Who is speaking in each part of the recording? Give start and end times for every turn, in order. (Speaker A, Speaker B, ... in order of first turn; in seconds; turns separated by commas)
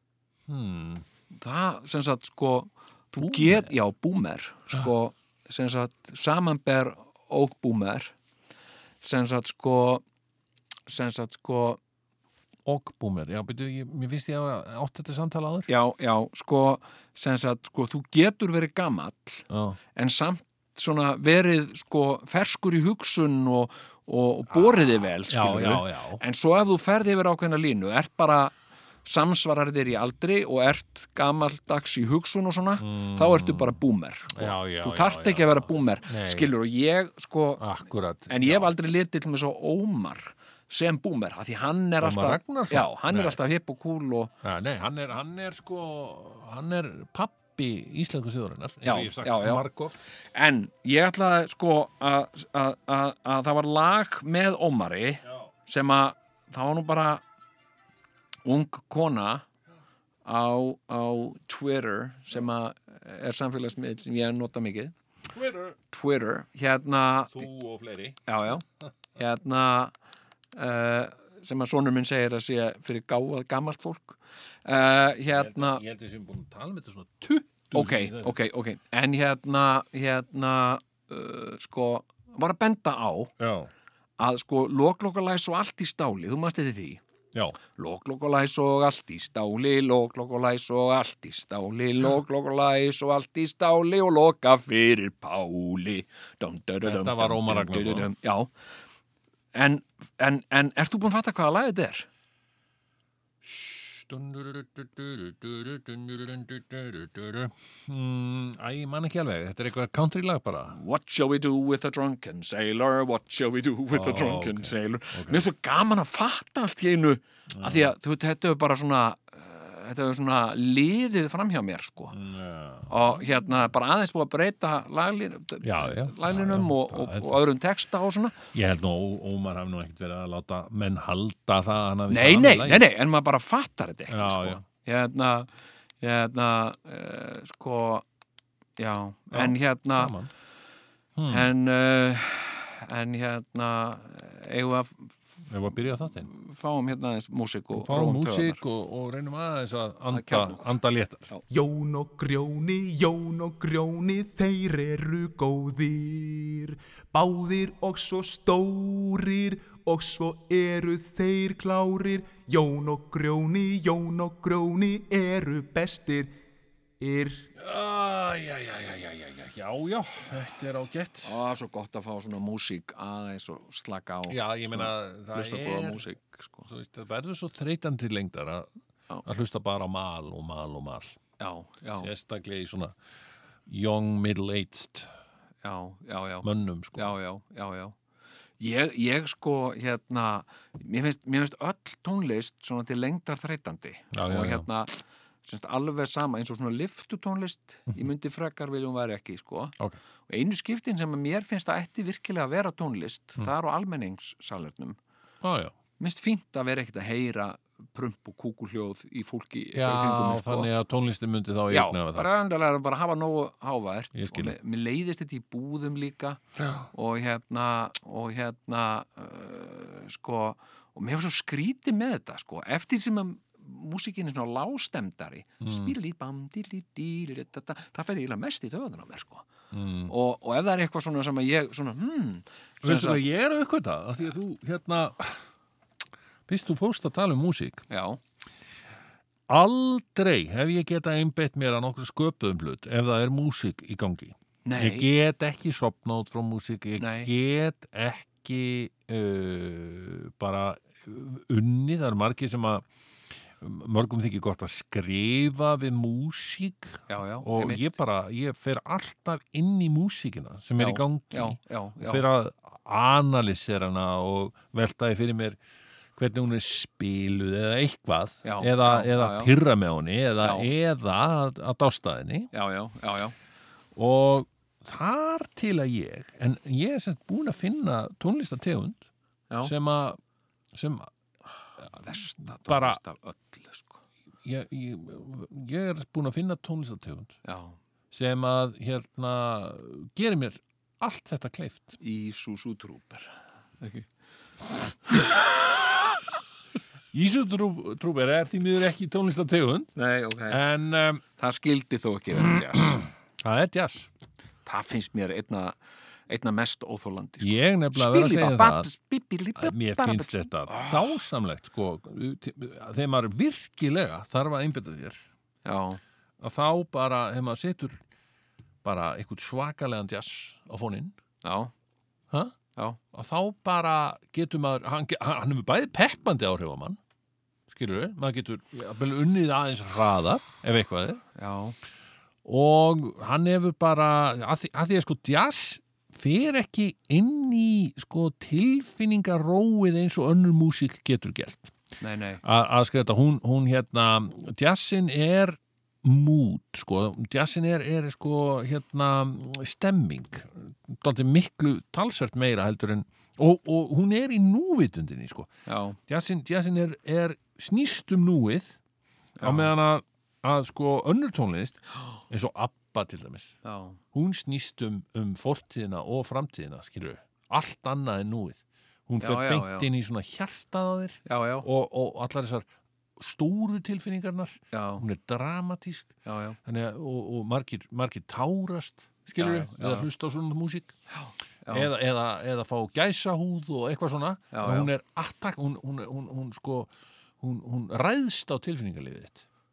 Speaker A: 0.5-1.1, Speaker B: 1.3-8.1, Speaker A: 3.2-3.7, Speaker B: 9.0-10.0, Speaker B: 10.9-11.8, Speaker A: 12.7-15.7, Speaker B: 15.7-28.5, Speaker A: 19.5-19.8, Speaker A: 24.5-26.2, Speaker B: 29.1-37.6, Speaker A: 32.8-36.5, Speaker A: 37.6-38.7, Speaker B: 38.3-44.3, Speaker A: 42.0-43.4, Speaker A: 44.4-50.0, Speaker B: 48.8-49.6, Speaker B: 50.3-57.2, Speaker B: 58.5-59.5, Speaker B: 60.2-65.0, Speaker A: 65.3-65.8, Speaker B: 65.9-67.5, Speaker A: 67.3-68.3, Speaker B: 68.3-68.7, Speaker B: 69.2-70.0, Speaker B: 70.5-75.8, Speaker A: 75.3-78.4, Speaker B: 77.7-83.3, Speaker A: 83.4-83.7, Speaker B: 84.2-87.0, Speaker A: 87.3-87.6, Speaker B: 87.7-98.5, Speaker A: 96.8-98.1, Speaker B: 99.5-102.1, Speaker A: 103.4-110.8, Speaker B: 110.7-122.2, Speaker A: 113.9-115.5, Speaker A: 117.5-117.9, Speaker A: 122.1-123.2, Speaker B: 122.9-128.4, Speaker A: 125.6-127.4, Speaker A: 128.5-132.9, Speaker B: 132.1-138.1, Speaker A: 134.1-134.6, Speaker B: 138.8-140.2, Speaker A: 139.3-140.3, Speaker A: 141.2-141.5, Speaker B: 141.3-145.4, Speaker A: 145.5-146.3, Speaker B: 146.2-148.6, Speaker A: 147.7-151.3, Speaker B: 150.1-150.7, Speaker C: 151.5-166.3, Speaker C: 167.0-167.5, Speaker A: 167.6-171.4, Speaker B: 171.2-176.7, Speaker A: 174.3-176.1, Speaker A: 176.7-178.7, Speaker A: 179.2-181.2, Speaker B: 181.4-182.1, Speaker A: 182.0-183.0, Speaker A: 183.7-185.1, Speaker B: 185.6-187.9, Speaker A: 186.4-187.1, Speaker B: 188.6-199.8, Speaker A: 194.1-194.7, Speaker B: 200.3-205.0, Speaker A: 205.4-205.8, Speaker B: 206.0-210.7, Speaker A: 209.7-212.3, Speaker B: 211.7-216.4, Speaker A: 214.1-214.6, Speaker A: 216.6-216.9, Speaker B: 216.9-229.5, Speaker A: 225.6-225.9, Speaker A: 229.7-230.1, Speaker B: 230.1-233.2, Speaker A: 232.8-235.4, Speaker A: 236.5-237.8, Speaker B: 237.9-238.2, Speaker A: 239.5-252.9, Speaker B: 244.7-245.1, Speaker B: 247.0-247.3, Speaker A: 253.6-265.6, Speaker B: 257.1-257.9, Speaker B: 260.8-262.2, Speaker A: 266.2-272.5, Speaker B: 268.4-269.5, Speaker B: 270.4-270.7, Speaker B: 272.5-273.4, Speaker A: 273.9-279.0, Speaker A: 279.6-280.2, Speaker A: 280.7-281.1, Speaker B: 281.9-284.0, Speaker A: 282.4-283.0, Speaker A: 284.4-287.4, Speaker B: 287.4-287.8, Speaker A: 288.1-292.0, Speaker B: 292.0-294.1, Speaker A: 297.1-299.9, Speaker B: 300.0-300.6, Speaker A: 300.5-301.2, Speaker B: 301.4-303.1, Speaker A: 302.4-304.1, Speaker B: 304.6-305.8, Speaker B: 306.3-311.2, Speaker A: 307.4-308.9, Speaker A: 309.6-315.2, Speaker B: 315.6-316.0, Speaker A: 316.4-318.0, Speaker A: 318.8-321.1, Speaker B: 321.4-321.7, Speaker A: 323.1-327.0, Speaker A: 327.7-331.2, Speaker B: 331.4-331.8, Speaker A: 332.4-341.8, Speaker B: 342.0-342.4, Speaker A: 342.4-355.5, Speaker B: 355.7-356.0, Speaker A: 356.1-358.8, Speaker B: 359.4-359.7, Speaker A: 359.4-363.6, Speaker B: 363.6-364.0, Speaker A: 364.1-376.1, Speaker B: 369.2-369.9, Speaker B: 371.3-371.7, Speaker B: 374.7-375.0, Speaker B: 376.2-376.6, Speaker A: 376.6-380.9, Speaker B: 379.4-380.1, Speaker B: 381.1-381.9, Speaker A: 381.7-389.4, Speaker B: 384.5-384.9